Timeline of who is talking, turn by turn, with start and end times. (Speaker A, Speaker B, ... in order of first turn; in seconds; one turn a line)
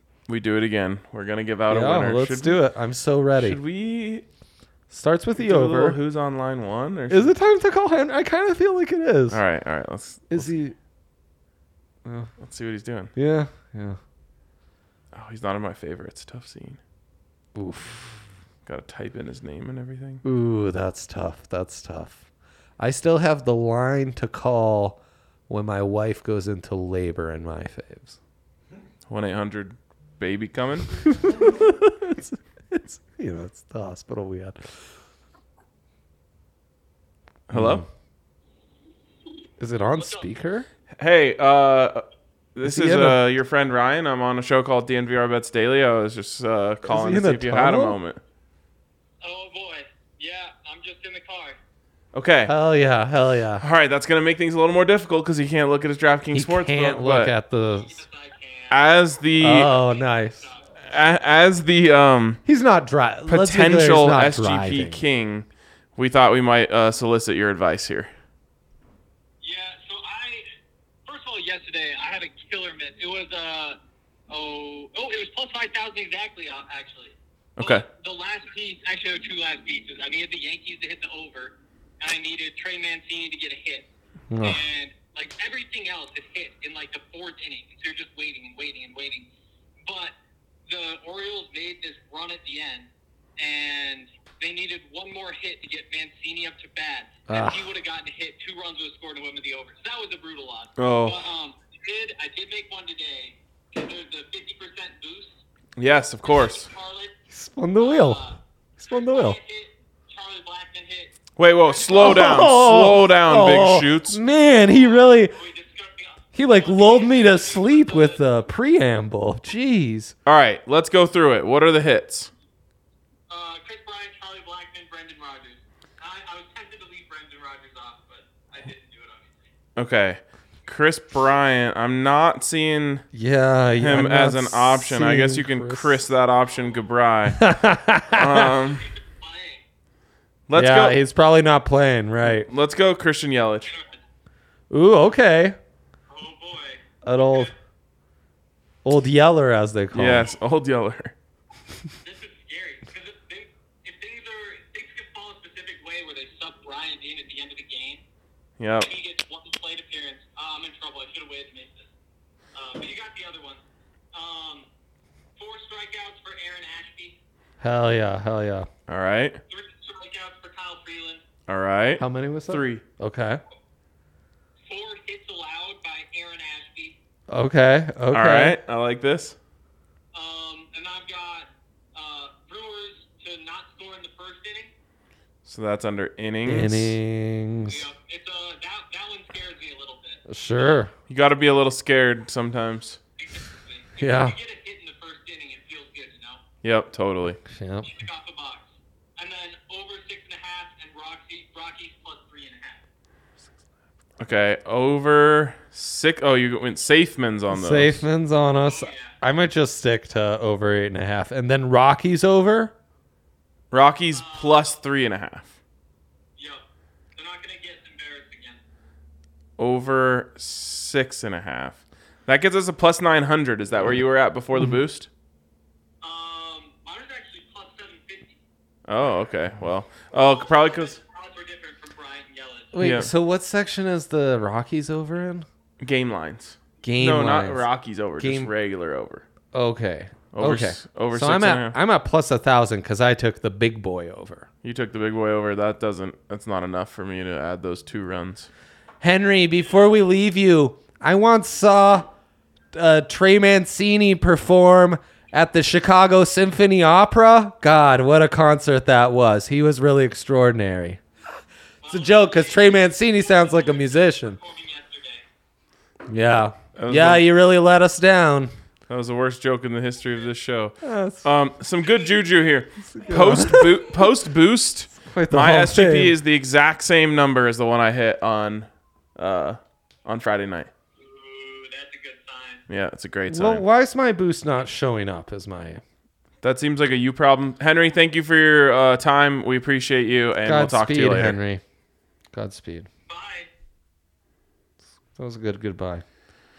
Speaker A: 0.3-2.6
Speaker B: 1.7-3.6
Speaker A: 3.4-4.2
Speaker B: 4.9-6.0
Speaker A: 5.4-7.3
Speaker B: 7.1-9.4
Speaker A: 9.3-10.5
Speaker B: 10.3-10.7
Speaker B: 12.0-12.3
Speaker A: 12.4-13.1
Speaker B: 13.2-14.0
Speaker A: 15.1-16.8
Speaker B: 17.5-18.2
Speaker A: 18.6-20.2
Speaker B: 20.2-22.2
Speaker B: 22.8-28.2
Speaker A: 29.1-31.1
Speaker B: 31.1-34.7
Speaker A: 37.5-37.8
Speaker B: 37.5-37.9
Speaker B: 39.6-40.7
Speaker A: 41.0-42.0
Speaker A: 42.5-48.2
Speaker B: 42.6-43.2
Speaker B: 46.8-48.0
Speaker C: 49.2-51.6
Speaker A: 52.1-52.5
Speaker B: 52.5-53.6
Speaker A: 53.6-57.3
Speaker B: 56.3-58.0
Speaker C: 57.8-58.8
Speaker A: 58.7-59.7
Speaker B: 59.4-60.5
Speaker C: 60.3-60.7
Speaker A: 60.8-62.4
Speaker B: 62.5-65.0
Speaker A: 63.3-68.1
Speaker C: 69.4-70.5
Speaker C: 71.0-73.8
Speaker C: 74.3-83.9
Speaker A: 77.6-77.8
Speaker B: 84.3-84.6
Speaker C: 84.4-89.3
Speaker C: 89.8-90.1
Speaker C: 90.7-105.4
Speaker B: 97.3-97.7
Speaker A: 100.8-101.2
Speaker A: 105.8-106.7
Speaker C: 106.2-107.1
Speaker B: 107.3-109.4
Speaker C: 107.8-111.1
Speaker A: 111.4-114.2
Speaker C: 111.7-112.4
Speaker B: 111.9-115.3
Speaker C: 114.5-118.2
Speaker B: 116.3-120.1
Speaker A: 120.2-122.3
Speaker C: 123.3-129.5
Speaker A: 129.8-133.0
Speaker B: 133.1-136.0
Speaker A: 133.8-137.5
Speaker B: 137.3-138.5
Speaker A: 138.2-138.9
Speaker C: 138.7-139.6
Speaker A: 140.5-141.0
Speaker B: 140.5-142.5
Speaker A: 142.2-143.7
Speaker C: 143.6-143.9
Speaker B: 144.7-145.6
Speaker C: 146.1-146.8
Speaker B: 147.0-147.5
Speaker B: 148.8-150.3
Speaker A: 149.9-151.1
Speaker C: 152.0-158.0
Speaker A: 158.6-158.9
Speaker C: 158.8-161.9
Speaker C: 162.5-164.7
Speaker C: 165.4-167.2
Speaker B: 167.6-168.7
Speaker A: 168.9-169.4
Speaker C: 169.5-171.2
Speaker A: 171.5-172.8
Speaker B: 172.0-173.4
Speaker C: 174.7-176.9
Speaker B: 177.3-178.6
Speaker A: 178.1-179.3
Speaker C: 180.1-184.7
Speaker A: 185.4-187.0
Speaker B: 186.4-187.9
Speaker C: 187.7-190.2
Speaker B: 190.3-190.9
Speaker A: 191.1-193.0
Speaker C: 193.2-196.4
Speaker B: 194.0-194.4
Speaker A: 196.6-197.4
Speaker B: 197.4-197.9
Speaker C: 197.8-198.7
Speaker C: 199.2-202.8
Speaker A: 204.2-208.0
Speaker B: 207.5-212.7
Speaker C: 208.6-209.2
Speaker A: 213.7-215.6
Speaker C: 214.1-214.8
Speaker C: 216.4-216.6
Speaker C: 217.1-218.6
Speaker A: 219.6-225.1
Speaker C: 226.0-228.3
Speaker A: 228.9-231.0
Speaker C: 230.1-232.8
Speaker B: 232.7-235.4
Speaker A: 232.8-233.1
Speaker A: 235.8-239.2
Speaker B: 236.8-237.7
Speaker B: 238.2-238.5
Speaker B: 239.5-244.5
Speaker A: 240.3-241.7
Speaker A: 244.6-248.5
Speaker B: 249.0-252.1
Speaker B: 252.7-261.0
Speaker C: 261.8-265.2
Speaker B: 261.9-264.4
Speaker B: 266.1-268.5
Speaker A: 266.8-267.2
Speaker A: 268.9-280.7
Speaker B: 270.8-271.3
Speaker B: 272.9-274.0
Speaker B: 275.0-276.2
Speaker C: 281.0-282.6
Speaker A: 282.7-283.6
Speaker B: 283.3-285.8
Speaker A: 286.4-291.4
Speaker B: 290.4-291.6
Speaker B: 292.3-292.9
Speaker C: 293.1-293.5
Speaker B: 295.1-296.0